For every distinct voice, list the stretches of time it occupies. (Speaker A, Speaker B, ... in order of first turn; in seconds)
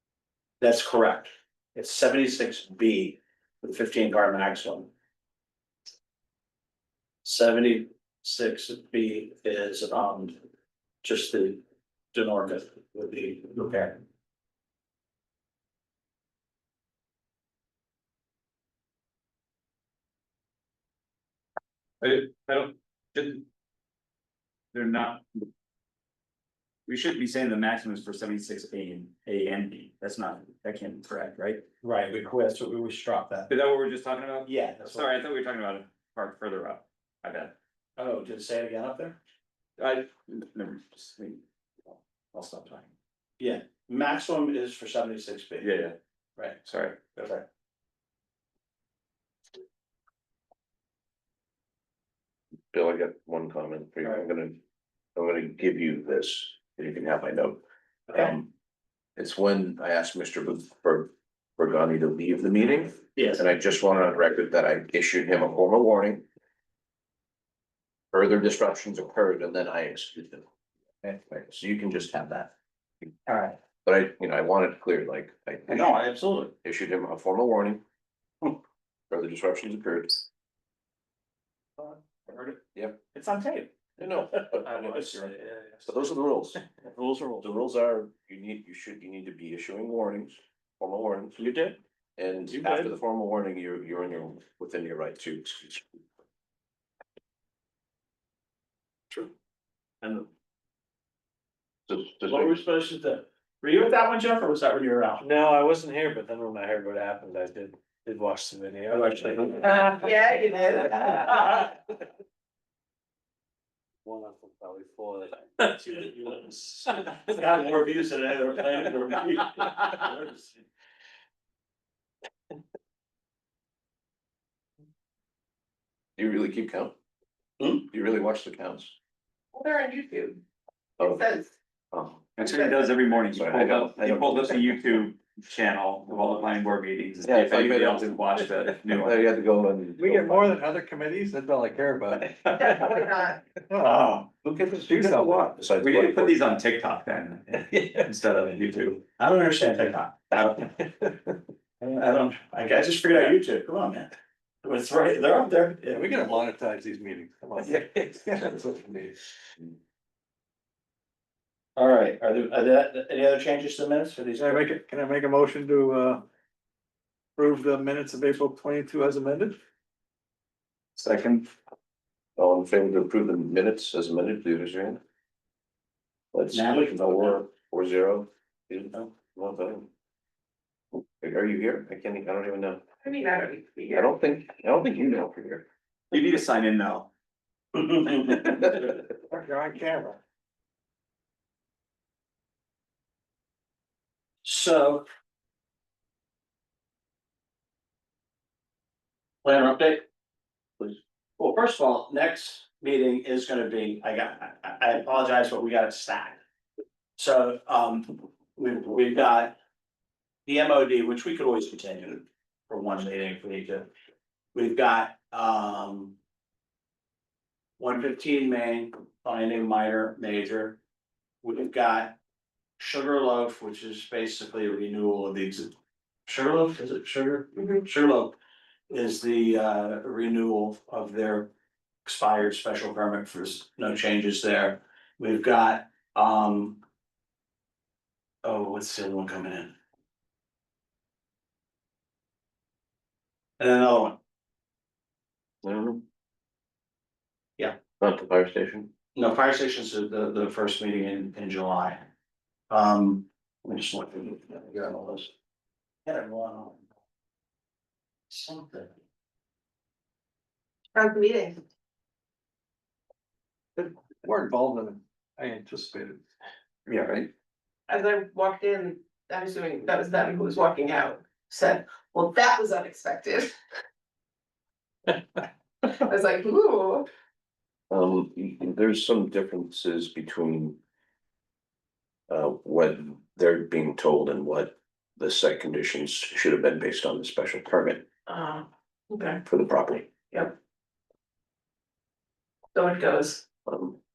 Speaker A: 0.6-4.9, 7.2-10.4, 11.0-14.0, 31.8-33.5, 34.5-35.1, 38.0-39.2, 43.4-45.7, 47.1-47.5, 58.1-58.3, 63.2-63.4, 73.3-73.6, 75.7-76.5, 102.3-105.3, 108.9-109.6, 117.2-120.6, 149.2-150.6, 151.8-154.1, 154.6-156.2, 161.8-164.6, 176.5-177.4, 187.7-188.6, 194.4-195.1, 199.4-200.1, 201.4-206.4, 207.2-209.6, 210.5-213.9, 214.5-216.2, 217.8-220.8, 221.4-222.2, 222.8-225.7, 226.3-228.3, 228.9-231.5, 232.1-236.8, 238.4-239.7, 243.6-244.2, 249.2-252.0, 252.7-255.3, 256.1-256.8, 258.3-258.9
Speaker B: 22.0-23.4, 24.7-25.5, 26.9-31.6, 33.5-37.5, 39.8-41.4, 42.3-42.9, 45.6-46.0, 46.6-47.0, 81.8-82.6, 83.2-83.7, 85.0-85.3, 132.4-139.3, 142.4-143.1, 143.8-144.3, 144.9-149.0, 171.0-171.5, 186.1-187.1, 266.9-267.3
Speaker C: 52.7-54.6, 55.1-57.6, 58.1-58.5, 59.2-66.3, 68.1-70.5, 71.0-72.5, 73.8-76.0, 76.6-77.8, 79.1-80.3, 82.8-83.0, 84.0-85.3, 85.8-86.6, 87.4-91.6, 92.2-95.9, 101.9-102.6, 126.2-126.9, 127.8-128.9, 131.0-131.2, 131.9-132.3, 133.3-134.7, 137.2-140.6, 144.5-144.9, 145.6-146.4, 172.4-175.0, 176.3-179.9, 181.2-182.8, 183.9-185.7, 245.6-246.0, 248.0-248.9, 277.9-280.8, 282.3-288.1, 289.4-290.1, 293.7-294.0
Speaker D: 85.0-85.8, 105.2-110.0, 111.0-111.5, 114.0-117.2, 140.0-142.9, 143.7-144.1, 144.8-145.5, 155.9-159.2, 164.4-166.2, 167.4-169.6, 189.3-190.2, 263.8-266.2
Speaker E: 109.6-111.5, 129.5-130.4, 131.0-131.5, 142.6-143.4, 183.0-184.1, 227.5-227.8, 260.9-261.6, 267.9-273.6, 275.9-277.1, 288.3-289.4, 292.8-293.4